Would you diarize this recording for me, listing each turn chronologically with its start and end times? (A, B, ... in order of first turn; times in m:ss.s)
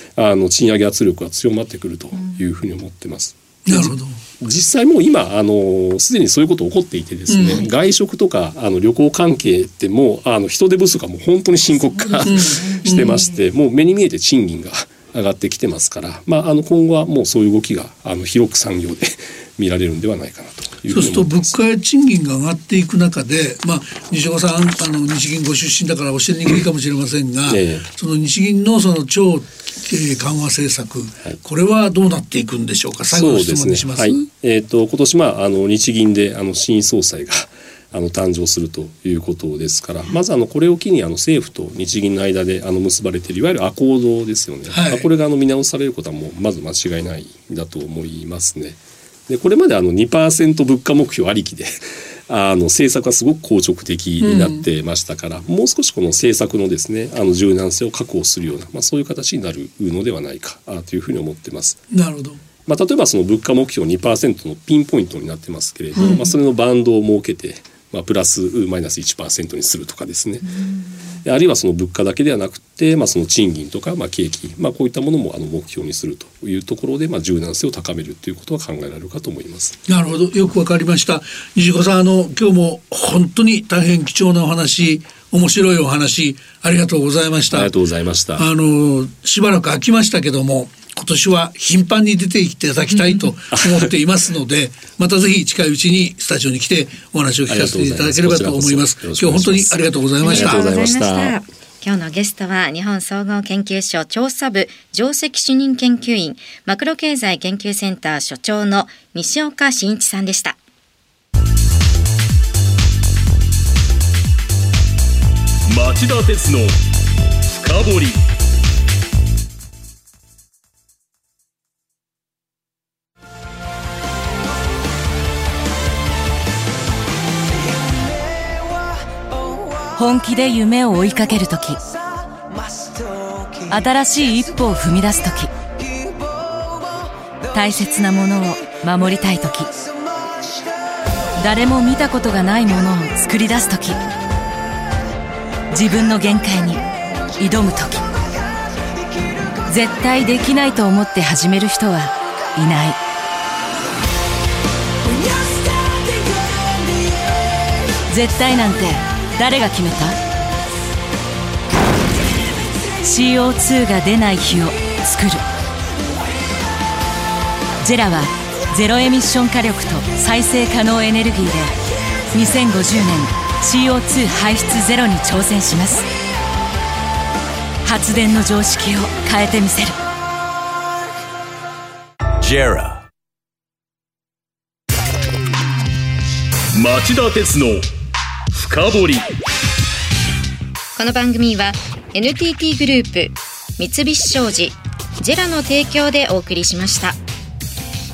0:00.2-0:21.6 A
0:03.7-0:04.2 B
0:07.3-0:07.6 B
0:12.2-0:13.2 B
0:20.9-0:34.3 B
0:27.5-0:27.8 A
0:33.1-1:01.8 A
0:44.7-0:45.0 B
0:54.2-0:54.6 B
1:01.9-1:02.4 B
1:02.7-1:10.6 A
1:05.9-1:06.3 B
1:11.2-1:19.8 A
1:19.9-1:27.7 B
1:27.5-1:28.4 A
1:28.4-1:40.6 B
1:33.5-1:33.9 A
1:37.5-1:41.4 A
1:40.2-1:50.6 C
1:55.7-1:56.8 D
1:57.5-1:58.2 D
2:09.9-2:11.8 E
2:13.7-2:15.5 E
2:17.5-2:19.7 E
2:21.4-2:24.0 E
2:25.7-2:26.8 E
2:27.4-2:28.1 E
2:29.7-2:33.0 E
2:35.3-2:36.5 E
2:38.1-2:40.2 E
2:43.0-2:45.4 E
2:47.8-2:51.8 E
2:52.3-2:56.1 E
2:57.8-3:00.0 E
3:02.4-3:03.0 D
3:06.7-3:07.9 D
3:08.5-3:09.3 D
3:11.0-3:17.2 C